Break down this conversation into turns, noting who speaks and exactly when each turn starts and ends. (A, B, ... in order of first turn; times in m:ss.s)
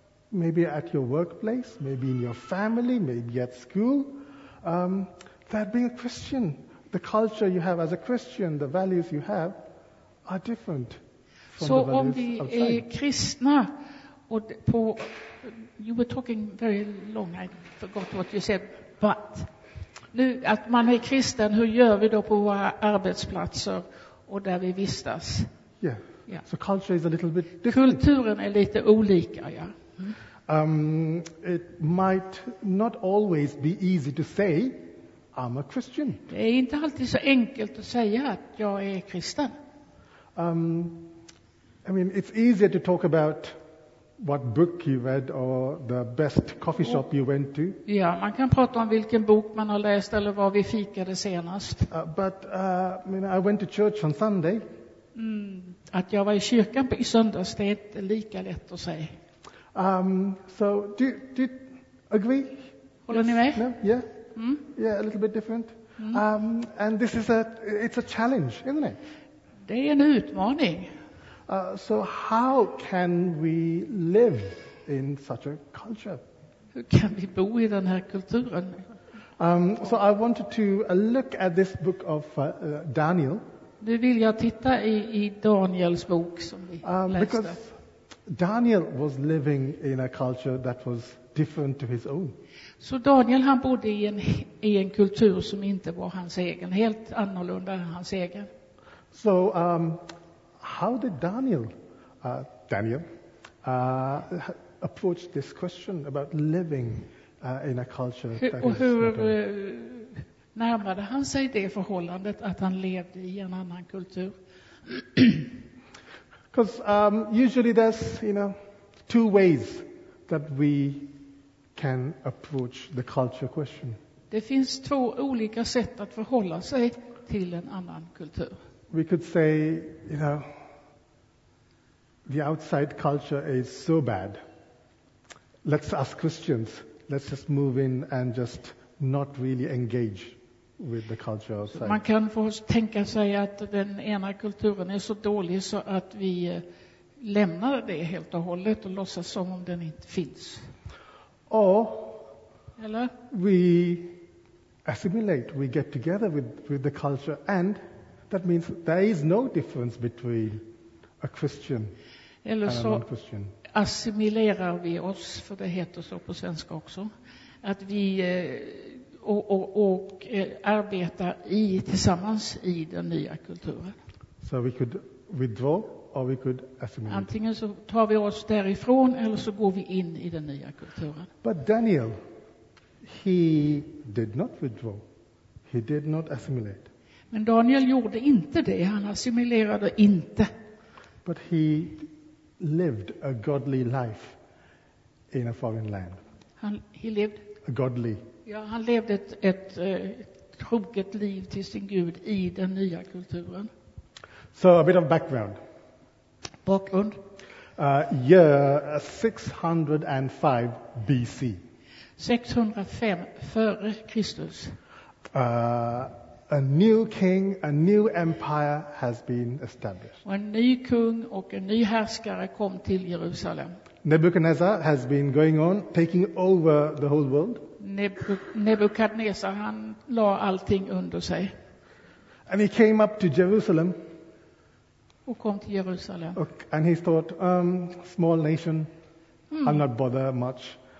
0:00.3-0:09.6 A
0:10.2-0:11.0 A
0:11.5-0:12.8 A
0:11.6-0:13.7 B
0:14.3-0:19.5 B
0:20.1-0:25.5 B
0:25.8-0:28.0 A
0:27.7-0:30.2 B
0:30.5-0:36.3 A
0:36.3-0:39.5 B
0:40.4-0:41.1 A
0:41.8-0:43.6 A
0:44.2-0:47.8 A
0:47.8-0:51.9 B
0:51.9-0:54.7 A
0:55.1-0:59.1 B
0:59.7-1:04.1 A
1:03.1-1:03.7 B
1:04.4-1:04.6 B
1:04.6-1:09.0 A
1:09.6-1:10.9 B
1:11.5-1:16.2 A
1:16.7-1:18.8 B
1:19.4-1:23.4 A
1:23.8-1:27.5 B
1:26.8-1:27.8 A
1:28.3-1:32.4 A
1:32.8-1:38.5 B
1:39.1-1:40.0 A
1:40.6-1:43.0 A
1:43.6-1:49.4 A
1:48.4-1:54.3 B
1:54.8-1:55.5 B
1:56.5-1:58.6 A
1:59.1-2:01.1 A
2:01.8-2:04.0 A
2:04.3-2:08.5 B
2:08.9-2:10.6 A
2:12.2-2:14.4 A
2:15.6-2:22.0 A
2:21.7-2:26.6 B
2:27.2-2:30.7 B
2:31.5-2:32.3 A
2:32.8-2:33.1 B
2:33.3-2:34.2 A
2:34.8-2:40.6 A
2:41.2-2:41.9 A
2:42.4-2:43.0 B
2:42.6-2:43.6 A
2:43.7-2:47.1 B
2:47.6-2:54.0 B
2:54.4-2:57.3 A
2:57.1-3:01.3 B
3:01.4-3:02.2 A
3:03.0-3:05.0 A
3:05.7-3:06.9 A
3:07.3-3:10.5 B
3:11.2-3:14.4 A
3:15.3-3:16.2 A
3:16.6-3:17.5 B
3:17.6-3:18.2 A
3:18.4-3:23.7 B
3:24.5-3:25.6 A
3:26.6-3:27.2 B
3:27.8-3:31.6 A
3:32.2-3:34.8 B
3:35.3-3:40.2 A
3:40.2-3:43.8 B
3:44.0-3:47.6 A
3:47.8-3:51.5 B
3:52.5-3:54.0 A
3:55.2-3:56.4 B
3:56.3-3:58.9 A
3:59.5-3:59.8 B
3:59.6-4:00.8 A